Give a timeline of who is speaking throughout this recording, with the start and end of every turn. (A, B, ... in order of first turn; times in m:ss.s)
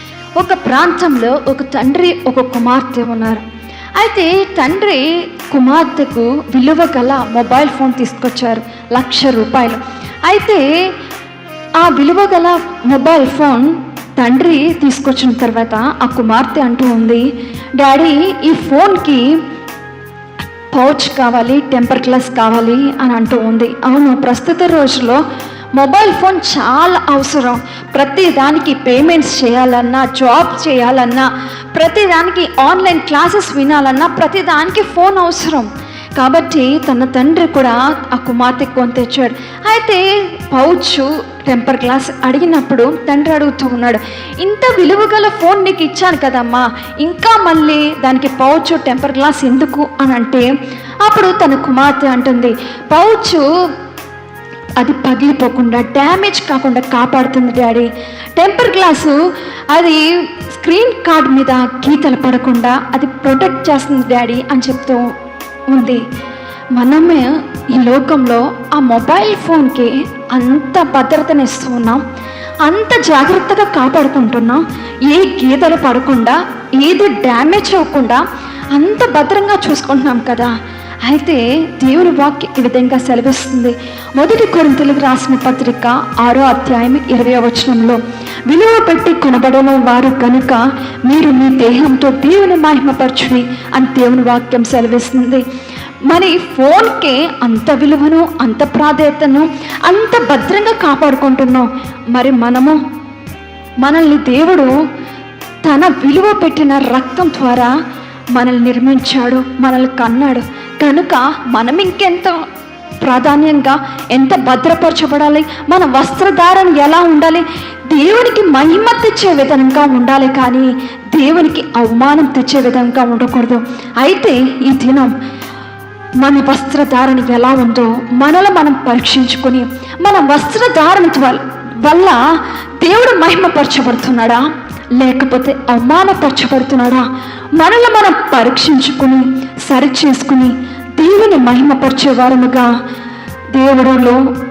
0:00.4-0:03.4 A
0:04.0-0:10.6 A
0:11.8-0:19.4 A
0:20.7-0:25.2 A
0:25.7-0:50.5 A
0:51.0-0:53.4 A
0:54.8-0:59.2 A
0:59.7-1:05.1 A
1:05.7-1:06.0 A
1:06.7-1:12.0 A
1:12.6-1:20.5 A
1:21.0-1:35.4 A
1:36.0-1:42.8 A
1:43.8-1:44.7 A
1:45.6-1:47.7 A
1:48.3-1:52.4 A
1:53.0-2:05.1 A
2:06.2-2:14.4 A
2:15.0-2:22.7 A
2:23.5-2:24.2 A